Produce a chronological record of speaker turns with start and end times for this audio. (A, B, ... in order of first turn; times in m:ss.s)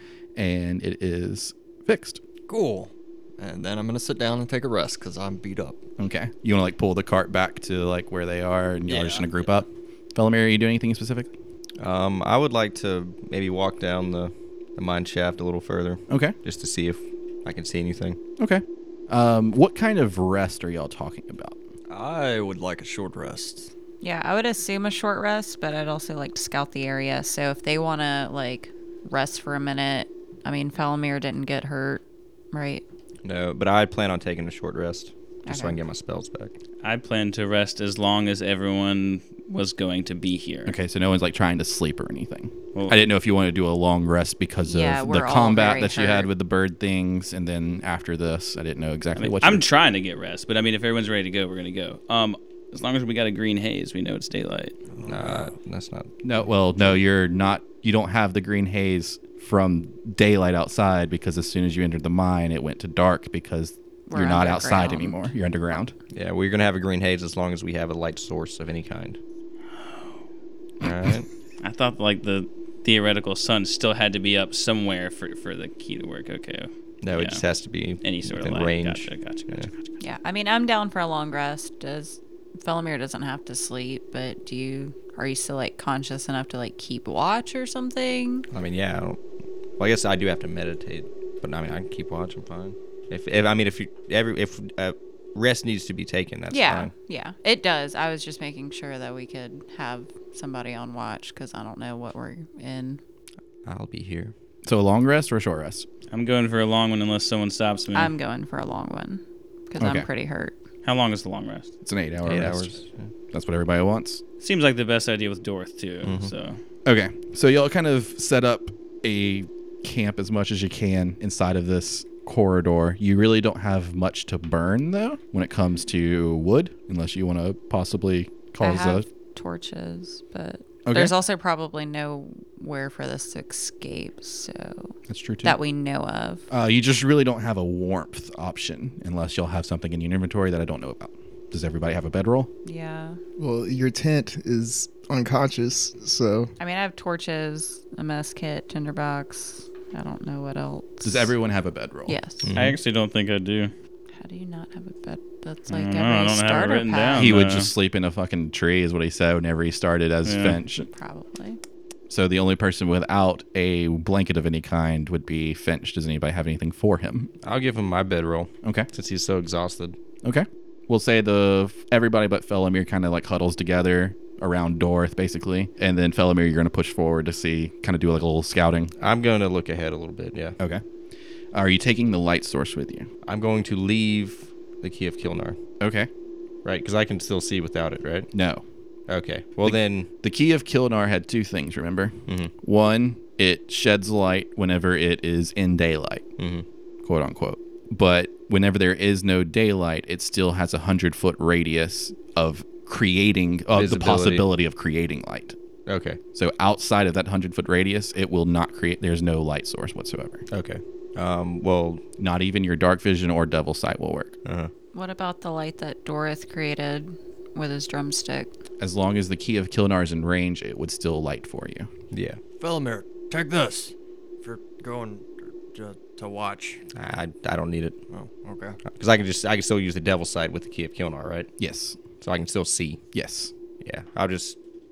0:00.4-0:02.2 A
0:02.5-0:05.8 B
0:06.0-0:11.3 A
0:08.9-0:09.3 B
0:11.8-0:18.2 C
0:16.1-0:16.4 A
0:18.4-0:21.6 A
0:21.9-0:23.7 B
0:24.0-0:32.8 D
0:33.2-0:36.5 C
0:35.4-0:35.8 D
0:36.8-0:40.8 E
0:40.6-0:49.6 A
0:44.7-0:46.3 D
0:49.2-0:54.8 E
0:55.0-0:55.5 B
0:55.0-0:56.1 C
0:56.2-1:05.9 A
1:04.1-1:05.3 D
1:06.1-1:09.2 C
1:10.8-1:11.3 C
1:11.6-1:17.4 E
1:17.0-1:19.7 C
1:18.0-1:19.9 E
1:20.0-1:28.5 D
1:28.5-1:29.2 C
1:29.8-1:36.9 C
1:36.5-1:43.0 D
1:43.6-1:44.3 C
1:44.6-1:45.9 A
1:46.1-1:48.1 E
1:47.9-1:50.5 D
1:49.8-1:50.1 A
1:50.8-1:51.7 E
1:51.8-1:52.8 A
1:52.2-1:53.1 C
1:53.3-1:54.2 A
1:54.4-1:56.6 E
1:56.0-1:56.3 C
1:56.8-2:09.0 A
2:08.6-2:16.5 D
2:10.8-2:11.1 A
2:15.1-2:15.6 A
2:16.5-2:22.5 A
2:22.6-2:23.2 D
2:23.4-2:26.5 F
2:26.6-2:31.3 D
2:31.0-2:32.2 A
2:32.0-2:32.5 D
2:32.4-2:32.8 C
2:32.5-2:33.7 E
2:34.1-2:37.3 D
2:35.7-2:37.7 E
2:37.2-2:40.9 A
2:40.2-2:40.6 E
2:40.9-2:41.6 D
2:42.1-2:47.3 A
2:47.4-2:50.0 C
2:48.6-2:48.9 A
2:50.2-2:58.9 A
2:59.0-3:00.6 C
3:01.5-3:03.1 A
3:03.2-3:05.6 C
3:05.8-3:06.1 A
3:06.6-3:08.3 C
3:08.3-3:08.6 A
3:09.1-3:10.1 C
3:09.6-3:16.2 A
3:16.4-3:16.6 C
3:17.0-3:25.6 A
3:23.7-3:24.4 C
3:25.9-3:26.2 C
3:26.3-3:30.4 A
3:30.5-3:32.0 C
3:32.2-3:34.3 A
3:34.4-3:34.7 C
3:34.9-3:38.5 D
3:38.8-3:41.9 A
3:42.1-3:42.4 C
3:42.6-3:46.8 B
3:46.9-3:48.0 C
3:48.1-3:48.8 B
3:48.9-3:51.5 C
3:51.6-3:52.0 A
3:52.2-3:53.0 C
3:53.1-3:53.5 A
3:53.8-3:54.6 C